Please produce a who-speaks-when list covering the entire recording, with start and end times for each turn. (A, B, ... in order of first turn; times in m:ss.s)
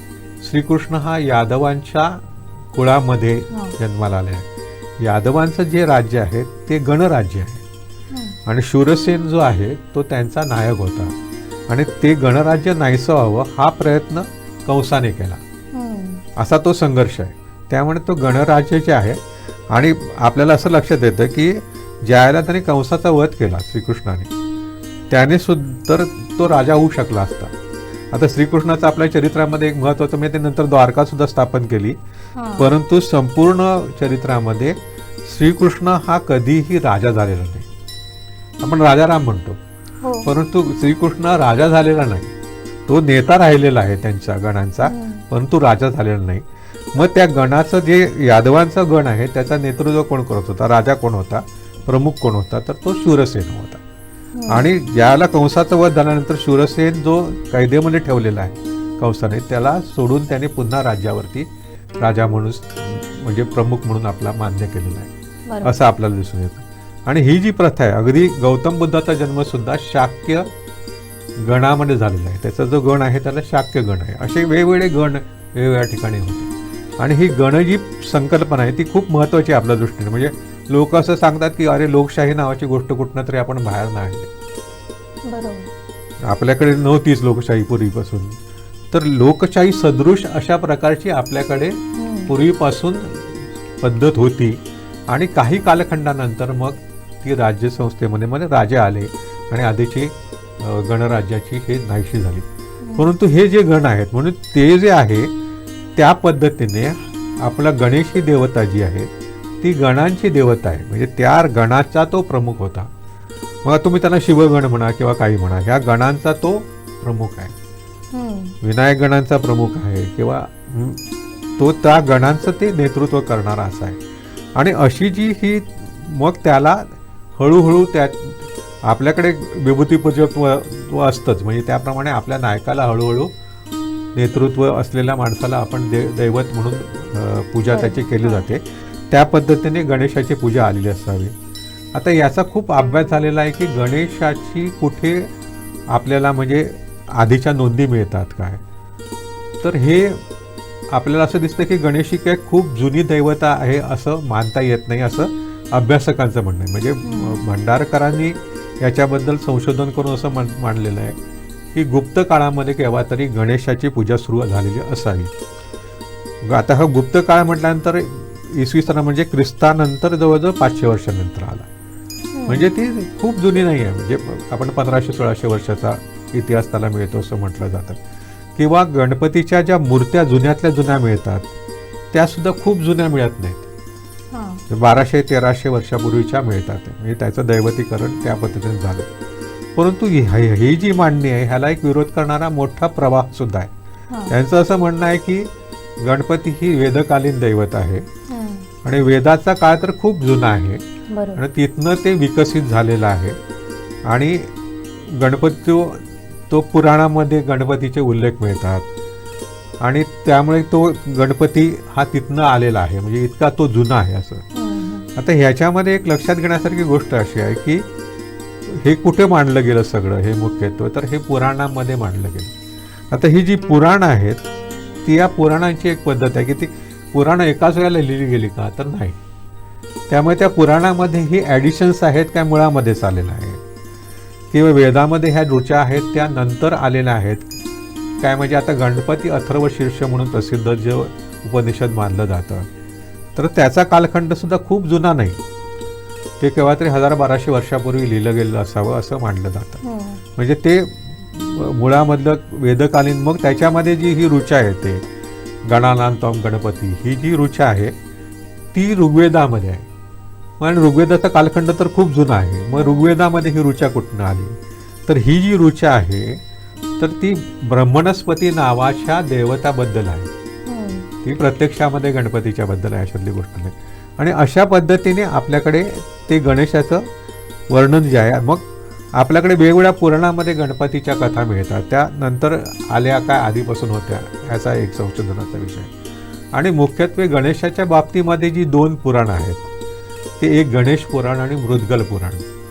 0:00.4-0:04.5 A
0:05.0-0:07.6 A
0:08.1-0:08.4 B
0:08.5-0:11.1 A
0:11.7-0:15.4 A
0:15.7-0:16.2 B
0:16.4-0:19.2 A
0:19.7-0:24.3 A
0:25.1-0:27.5 A
0:28.1-0:32.0 A
0:32.4-0:32.7 B
0:32.6-0:37.7 A
0:38.6-0:39.6 A
0:40.0-0:40.3 B
0:40.2-0:42.3 A
0:42.9-0:53.8 A
0:44.8-0:45.2 B
0:54.4-0:54.7 B
0:54.5-1:01.5 A
1:02.0-1:05.1 A
1:05.5-1:05.8 B
1:05.6-1:10.5 A
1:11.4-1:24.3 A
1:25.3-1:25.7 B
1:26.3-1:28.4 A
1:28.9-1:33.3 A
1:32.0-1:32.3 B
1:33.8-1:34.6 A
1:35.1-1:42.4 A
1:43.0-1:45.3 A
1:46.0-1:49.1 A
1:49.6-1:52.9 A
1:53.6-1:57.5 A
1:58.1-1:58.6 B
1:58.6-2:01.0 A
2:01.6-2:04.0 A
2:04.6-2:06.8 A
2:07.4-2:13.3 A
2:14.2-2:21.3 A
2:17.7-2:18.5 B
2:21.9-2:25.3 A
2:25.9-2:28.6 A
2:29.6-2:30.2 A
2:30.9-2:41.2 A
2:37.0-2:37.4 B
2:41.7-2:45.3 A
2:46.4-2:51.7 A
2:52.4-2:52.6 B
2:52.5-2:58.0 A
2:58.6-3:01.5 A
3:02.1-3:03.7 A
3:04.3-3:04.6 B
3:04.7-3:09.1 A
3:09.8-3:13.7 A
3:14.3-3:15.5 A
3:16.0-3:18.1 A
3:18.3-3:18.7 B
3:18.8-3:20.8 A
3:21.1-3:21.4 B
3:21.4-3:23.4 A
3:24.1-3:24.5 A
3:25.1-3:28.8 A
3:29.8-3:34.4 A
3:34.5-3:35.1 B
3:35.2-3:37.8 A
3:38.7-3:42.5 A
3:43.1-3:44.4 A
3:45.0-3:49.2 A
3:50.1-3:53.6 A
3:54.5-3:57.5 A
3:58.2-4:02.7 A
4:03.4-4:05.4 A
4:06.4-4:09.8 A
4:09.8-4:10.2 B
4:10.4-4:15.0 A
4:15.6-4:17.9 A
4:18.7-4:19.9 A
4:20.6-4:24.6 A
4:22.7-4:23.1 B
4:25.1-4:26.4 A
4:27.0-4:30.3 A
4:30.7-4:31.1 B
4:31.2-4:37.0 A
4:37.7-4:38.6 A
4:39.2-4:45.9 A
4:46.5-4:49.6 A
4:50.4-4:52.4 A